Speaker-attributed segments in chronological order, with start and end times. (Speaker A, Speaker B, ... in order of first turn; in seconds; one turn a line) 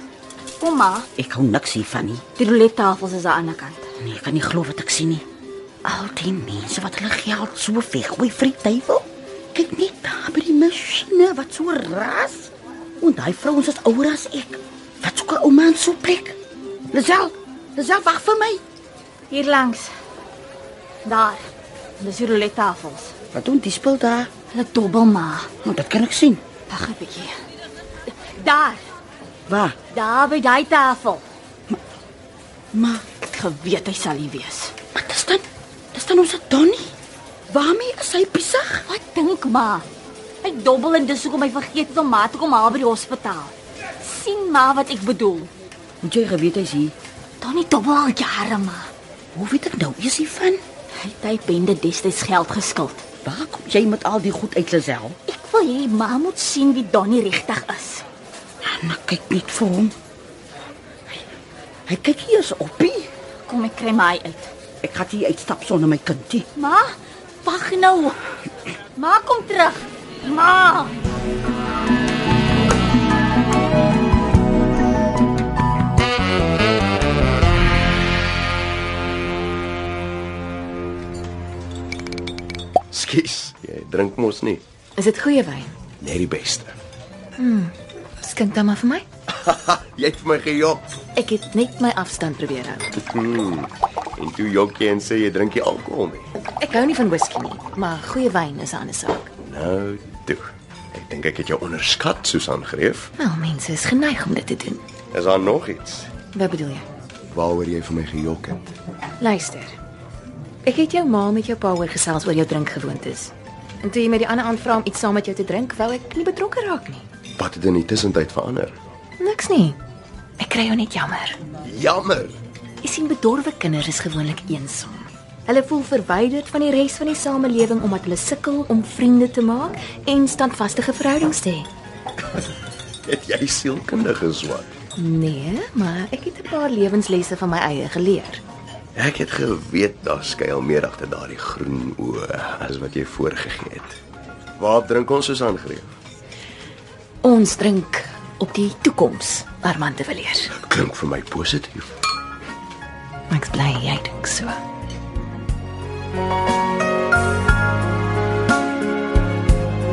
Speaker A: 0.6-1.1
Speaker B: 1.1-2.3
Speaker A: 2.3-3.9
Speaker B: 4.0-5.2
Speaker B: 5.8-16.4
Speaker B: 16.9-18.6
Speaker A: 19.3-19.9
Speaker A: 21.1-21.4
Speaker A: 22.0-23.1
Speaker B: 23.3-24.3
Speaker A: 24.5-25.5
Speaker B: 25.6-26.4
Speaker A: 26.7-27.3
Speaker A: 28.1-28.8
Speaker B: 29.5-29.8
Speaker A: 29.9-31.2
Speaker B: 32.7-33.0
Speaker A: 33.2-34.7
Speaker B: 34.9-36.9
Speaker B: 37.5-38.9
Speaker A: 38.9-39.9
Speaker A: 40.4-45.5
Speaker B: 46.0-46.9
Speaker A: 47.4-48.9
Speaker B: 49.3-50.6
Speaker A: 51.0-53.0
Speaker B: 53.2-55.1
Speaker A: 55.3-58.0
Speaker B: 58.6-59.9
Speaker B: 61.9-63.1
Speaker A: 63.5-64.5
Speaker B: 64.8-66.5
Speaker A: 66.5-68.2
Speaker A: 69.0-71.0
Speaker C: 82.9-84.6
Speaker D: 85.0-85.7
Speaker C: 86.0-86.7
Speaker D: 87.4-89.0
Speaker C: 89.4-90.9
Speaker D: 91.2-92.9
Speaker C: 93.0-96.3
Speaker D: 96.6-99.3
Speaker C: 99.4-103.1
Speaker D: 103.2-104.8
Speaker C: 105.1-106.1
Speaker D: 106.3-106.8
Speaker C: 107.3-108.6
Speaker D: 109.2-109.8
Speaker D: 110.6-117.0
Speaker C: 117.4-118.7
Speaker D: 119.2-119.8
Speaker D: 120.4-121.4
Speaker C: 121.6-122.4
Speaker D: 122.8-131.7
Speaker C: 133.1-134.7
Speaker D: 135.0-138.4
Speaker C: 138.9-144.0
Speaker C: 144.6-145.9
Speaker D: 147.2-150.5
Speaker C: 150.6-151.9
Speaker D: 153.3-154.6